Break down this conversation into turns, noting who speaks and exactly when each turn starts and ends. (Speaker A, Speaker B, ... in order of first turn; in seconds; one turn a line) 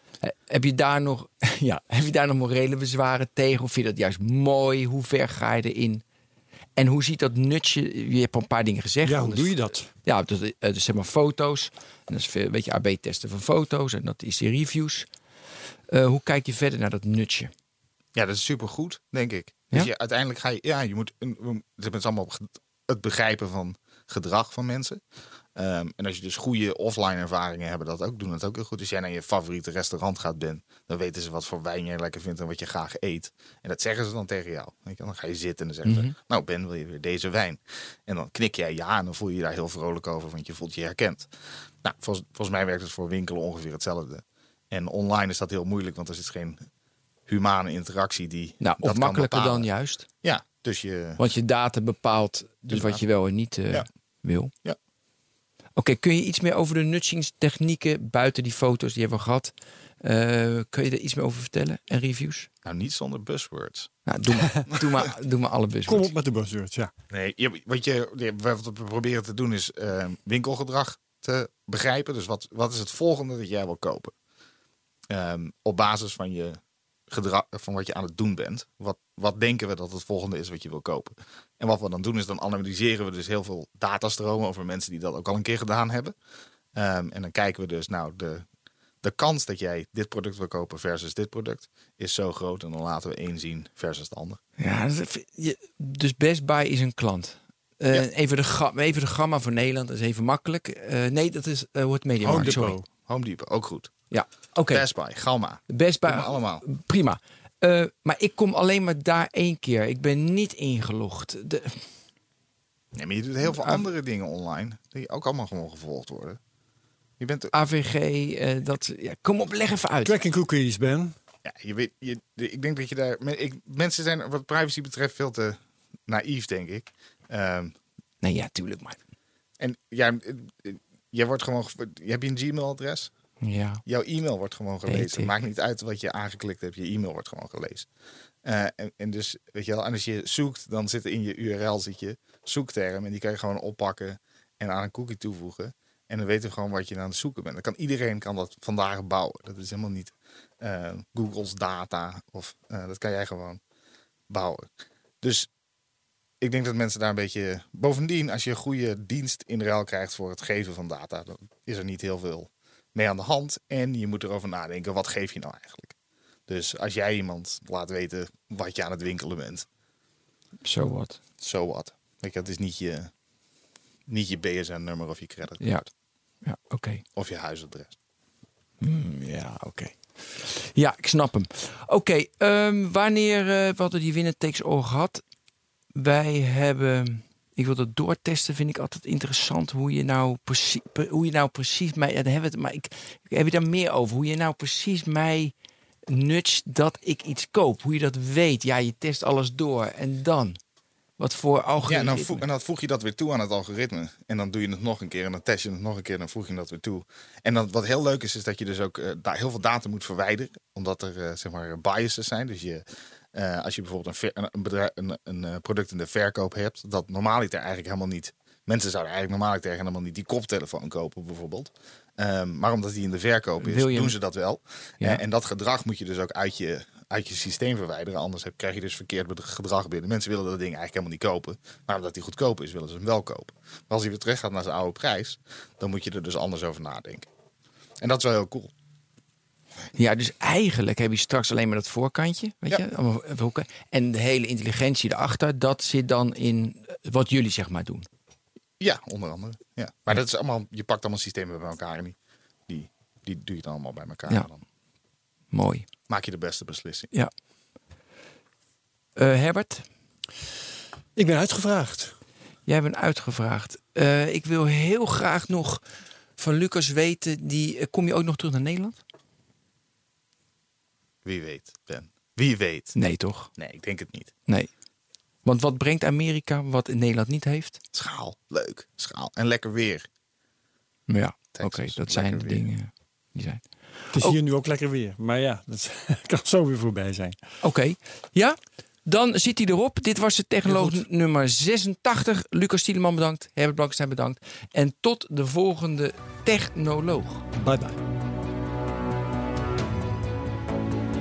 Speaker A: 0.2-6.0
Speaker A: 6.8-15.1
Speaker B: 9.0-9.9
Speaker A: 15.9-17.5
Speaker C: 18.1-25.0
Speaker C: 25.6-41.3
Speaker A: 35.9-36.1
Speaker C: 41.8-46.6
Speaker C: 47.3-49.7
Speaker A: 48.6-50.1
Speaker C: 50.2-51.2
Speaker A: 51.2-54.5
Speaker C: 52.7-53.0
Speaker A: 55.8-62.5
Speaker C: 62.6-63.9
Speaker A: 64.1-66.1
Speaker B: 65.9-66.9
Speaker C: 67.1-74.1
Speaker C: 75.1-86.1
Speaker C: 86.7-88.5
Speaker C: 89.0-94.4
Speaker A: 94.6-102.8
Speaker B: 102.2-102.8
Speaker C: 102.2-103.9
Speaker A: 104.1-104.9
Speaker C: 104.7-106.6
Speaker A: 105.7-111.8
Speaker C: 112.9-116.4
Speaker A: 113.5-113.8
Speaker C: 117.2-117.5
Speaker A: 117.5-120.2
Speaker B: 120.0-121.1
Speaker C: 121.4-127.8
Speaker A: 128.2-129.0
Speaker C: 129.6-133.1
Speaker A: 133.4-133.8
Speaker C: 133.9-137.9
Speaker A: 134.9-135.3
Speaker C: 138.4-153.6
Speaker C: 154.3-154.7
Speaker C: 155.2-155.5
Speaker C: 156.4-165.9
Speaker C: 166.5-169.7
Speaker A: 170.6-171.2
Speaker C: 171.4-173.1
Speaker C: 174.1-175.6
Speaker A: 175.6-175.9
Speaker A: 176.4-177.0
Speaker C: 177.2-177.9
Speaker A: 178.8-185.2
Speaker A: 185.9-195.5
Speaker A: 196.1-200.6
Speaker A: 201.2-202.4
Speaker C: 201.8-237.3
Speaker A: 223.6-224.2
Speaker C: 238.0-238.7
Speaker A: 240.0-248.1
Speaker C: 248.8-252.2
Speaker C: 252.7-254.6
Speaker A: 255.5-255.9
Speaker C: 256.1-257.1
Speaker A: 259.2-259.9
Speaker B: 261.2-262.1
Speaker A: 262.7-265.8
Speaker A: 266.4-269.0
Speaker C: 271.2-273.0
Speaker A: 272.9-273.5
Speaker C: 273.6-274.3
Speaker A: 275.4-277.8
Speaker C: 277.9-280.1
Speaker A: 281.1-283.6
Speaker C: 281.5-282.7
Speaker A: 284.1-284.4
Speaker B: 284.1-287.4
Speaker A: 287.6-297.5
Speaker B: 290.7-291.0
Speaker B: 297.6-298.0